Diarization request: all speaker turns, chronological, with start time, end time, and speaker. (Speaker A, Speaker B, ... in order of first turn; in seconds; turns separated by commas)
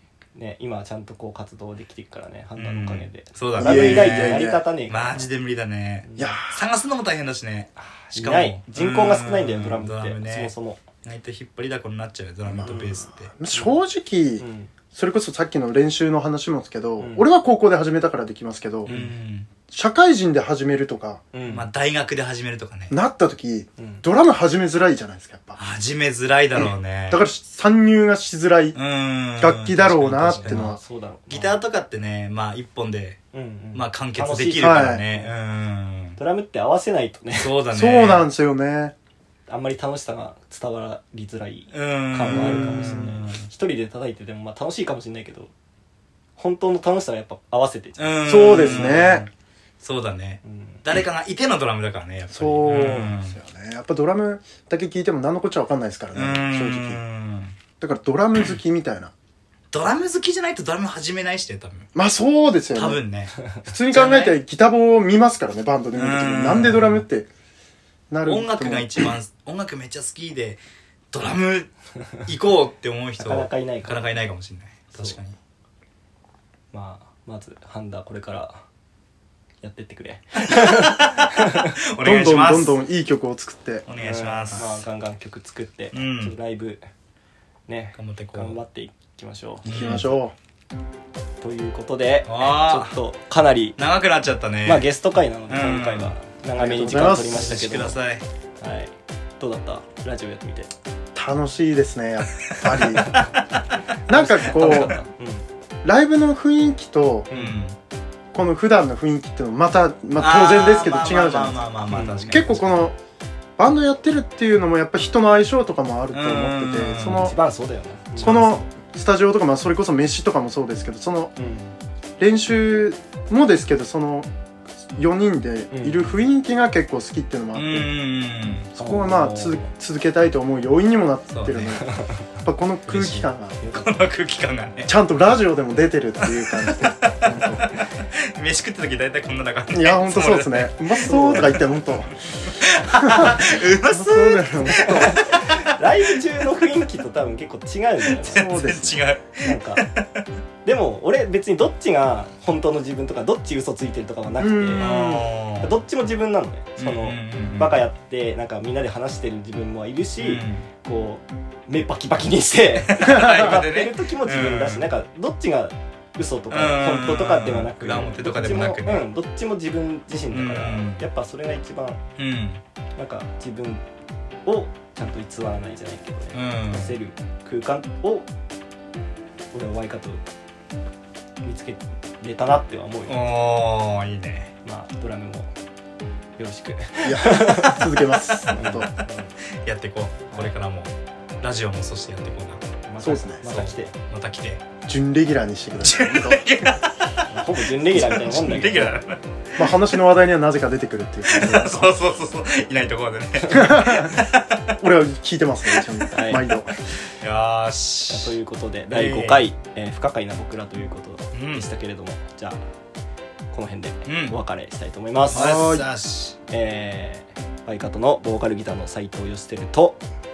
Speaker A: 0.3-5.2, Speaker B: 2.6-10.5, Speaker C: 3.6-4.6, Speaker A: 6.0-6.4, Speaker C: 6.2-6.6, Speaker A: 8.1-10.8, Speaker B: 11.0-13.3, Speaker C: 12.4-18.9, Speaker A: 12.7-13.8, Speaker A: 14.4-14.7, Speaker A: 17.0-17.3, Speaker A: 18.9-19.1, Speaker B: 18.9-19.5, Speaker C: 19.7-21.2, Speaker A: 21.3-21.7, Speaker B: 21.5-22.9, Speaker C: 22.9-25.6, Speaker A: 23.8-24.0, Speaker B: 25.6-27.2, Speaker C: 26.6-28.8, Speaker B: 28.8-30.8, Speaker C: 29.4-30.8, Speaker A: 30.3-31.6, Speaker B: 31.3-33.2, Speaker A: 33.3-35.3, Speaker B: 33.7-36.2, Speaker C: 34.6-35.0, Speaker A: 36.2-37.5, Speaker B: 37.4-38.3, Speaker C: 37.7-38.9, Speaker A: 39.5-45.5, Speaker B: 41.7-43.5, Speaker C: 42.3-43.2, Speaker A: 46.4-48.9, Speaker B: 48.0-49.3, Speaker C: 48.2-49.3, Speaker B: 49.8-53.4, Speaker A: 50.4-50.8, Speaker C: 52.3-57.0, Speaker B: 56.1-57.6, Speaker C: 57.8-59.1, Speaker B: 59.7-61.9, Speaker C: 62.0-63.0, Speaker B: 62.8-64.4, Speaker C: 63.6-67.3, Speaker B: 66.0-67.1, Speaker C: 68.1-69.1, Speaker B: 68.3-70.6, Speaker B: 71.1-71.7, Speaker B: 72.3-75.4, Speaker A: 73.2-74.0, Speaker A: 76.7-78.6, Speaker A: 79.6-81.7, Speaker B: 81.9-82.8, Speaker C: 82.0-83.9, Speaker B: 83.9-84.8, Speaker A: 83.9-86.8, Speaker B: 85.9-86.4, Speaker A: 87.7-89.7, Speaker B: 88.0-88.6, Speaker B: 89.6-90.1, Speaker C: 89.7-90.3, Speaker A: 91.4-93.8, Speaker B: 92.3-93.0, Speaker B: 93.8-94.9, Speaker A: 94.7-98.0, Speaker B: 95.5-96.1, Speaker C: 96.6-97.5, Speaker B: 97.1-98.2, Speaker A: 98.6-100.7, Speaker C: 101.2-103.2, Speaker B: 102.4-103.1, Speaker A: 103.0-103.3, Speaker C: 104.1-104.9, Speaker A: 104.1-105.5, Speaker C: 105.8-107.3, Speaker A: 107.3-107.6, Speaker B: 107.3-107.8, Speaker C: 108.3-111.6, Speaker B: 110.2-112.7, Speaker A: 111.9-112.5, Speaker C: 112.3-113.0, Speaker C: 113.6-117.3, Speaker B: 116.1-117.3, Speaker A: 117.0-118.4, Speaker C: 118.2-121.3, Speaker B: 118.2-118.7, Speaker A: 121.4-121.8, Speaker C: 122.2-124.3, Speaker C: 125.0-127.9, Speaker A: 125.7-126.1, Speaker B: 127.5-128.8, Speaker C: 128.8-131.9, Speaker A: 128.8-129.7, Speaker B: 131.3-131.8, Speaker A: 131.8-132.3, Speaker C: 132.4-133.6, Speaker B: 132.9-134.9, Speaker A: 133.6-133.9, Speaker C: 134.9-137.6, Speaker B: 136.2-141.4, Speaker C: 139.7-142.1, Speaker A: 141.0-141.6, Speaker B: 142.5-145.7, Speaker C: 143.0-145.2, Speaker A: 144.7-148.5, Speaker B: 148.3-150.2, Speaker C: 148.3-149.0, Speaker A: 149.4-149.8, Speaker A: 150.7-154.9, Speaker C: 154.4-155.3, Speaker B: 154.8-155.8, Speaker A: 155.6-172.0, Speaker B: 156.8-157.8, Speaker B: 160.2-160.7, Speaker B: 162.9-164.9, Speaker B: 166.5-169.1, Speaker B: 170.3-171.1, Speaker B: 172.2-172.6, Speaker A: 173.0-173.8, Speaker A: 174.5-178.3, Speaker B: 176.3-176.9, Speaker A: 179.5-180.2, Speaker A: 181.4-183.2, Speaker B: 183.1-184.5, Speaker A: 184.6-185.5, Speaker A: 186.4-189.3, Speaker C: 187.0-188.9, Speaker B: 188.5-188.9, Speaker B: 189.6-192.6, Speaker A: 192.9-193.9, Speaker C: 193.0-193.5, Speaker B: 193.4-194.6, Speaker C: 194.9-196.5, Speaker B: 195.8-197.2, Speaker A: 197.3-198.9, Speaker B: 197.9-200.0, Speaker C: 199.6-201.9, Speaker B: 201.3-204.8, Speaker C: 203.5-204.2, Speaker C: 204.8-206.7, Speaker A: 206.1-206.4, Speaker B: 207.2-208.4, Speaker A: 208.1-212.6, Speaker B: 208.9-209.4, Speaker B: 211.3-211.7, Speaker A: 213.5-215.5, Speaker B: 214.1-214.4, Speaker B: 215.3-216.4, Speaker C: 215.3-215.8, Speaker A: 216.5-220.0